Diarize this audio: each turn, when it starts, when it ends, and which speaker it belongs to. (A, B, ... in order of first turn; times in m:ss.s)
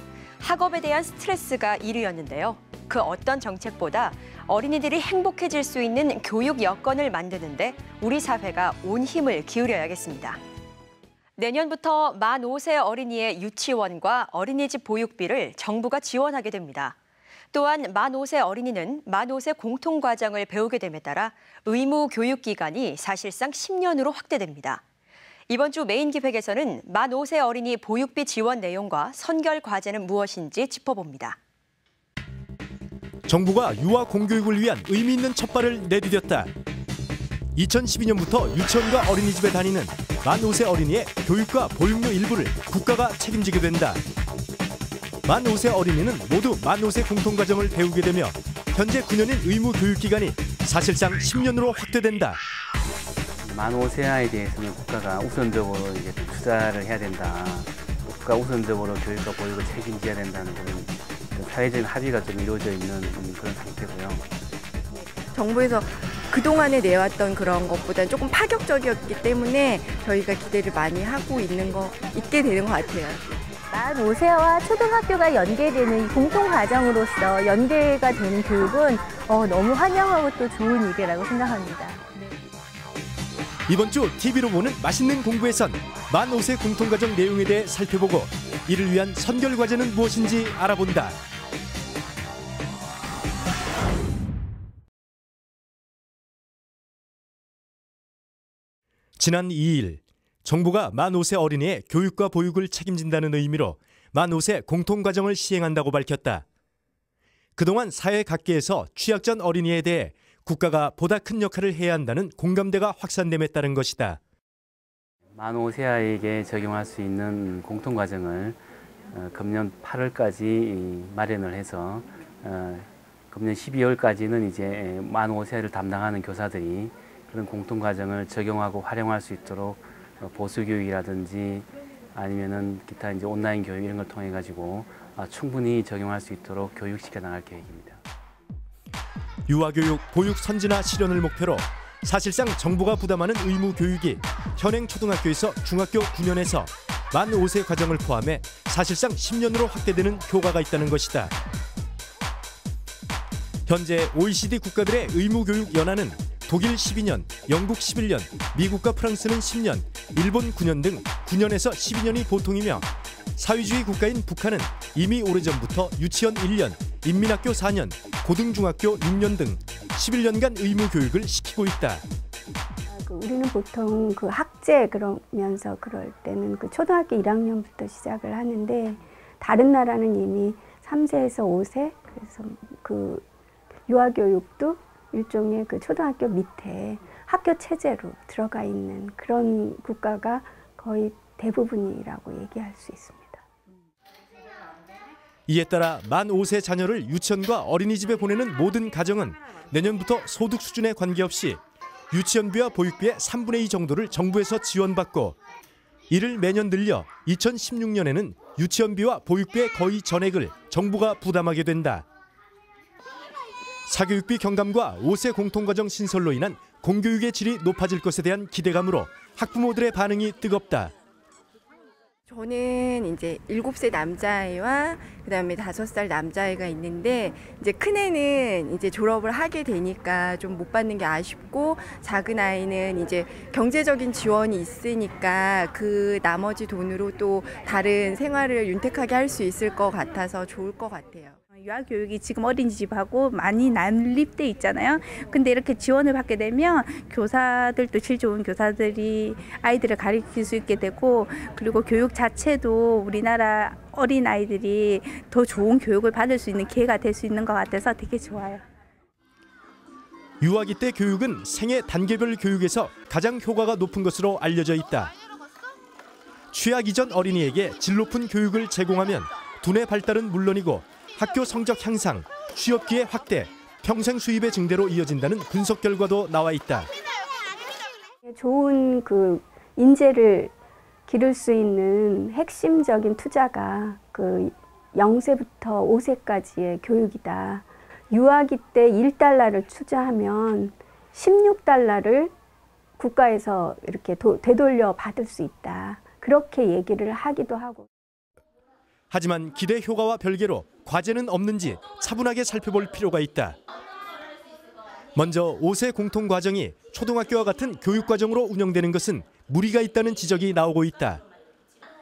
0:00.4-0:10.4 A
0:11.4-0:16.9 A
0:17.5-0:24.8 A
0:25.5-0:31.4 A
0:33.3-0:36.5 B
0:37.5-0:44.0 B
0:45.2-0:52.4 B
0:53.4-1:04.3 C
1:04.9-1:13.3 D
1:13.7-1:22.2 E
1:23.7-1:31.2 B
1:39.2-1:46.4 B
1:47.6-1:54.2 B
1:55.3-2:18.0 C
2:19.5-2:31.3 B
2:33.7-2:52.0 B
2:52.9-3:03.2 F
3:03.9-3:13.4 F
3:15.5-3:21.6 B
3:22.1-3:25.4 B
3:26.1-3:32.0 B
3:33.9-3:40.9 B
3:42.3-4:01.4 D
4:01.6-4:09.7 G
4:10.5-4:11.5 G
4:20.4-4:25.1 B
4:26.5-4:36.9 B
4:38.2-4:40.5 F
4:41.1-4:52.3 F
4:53.0-4:57.8 F
4:59.1-5:03.6 B
5:05.2-5:11.2 B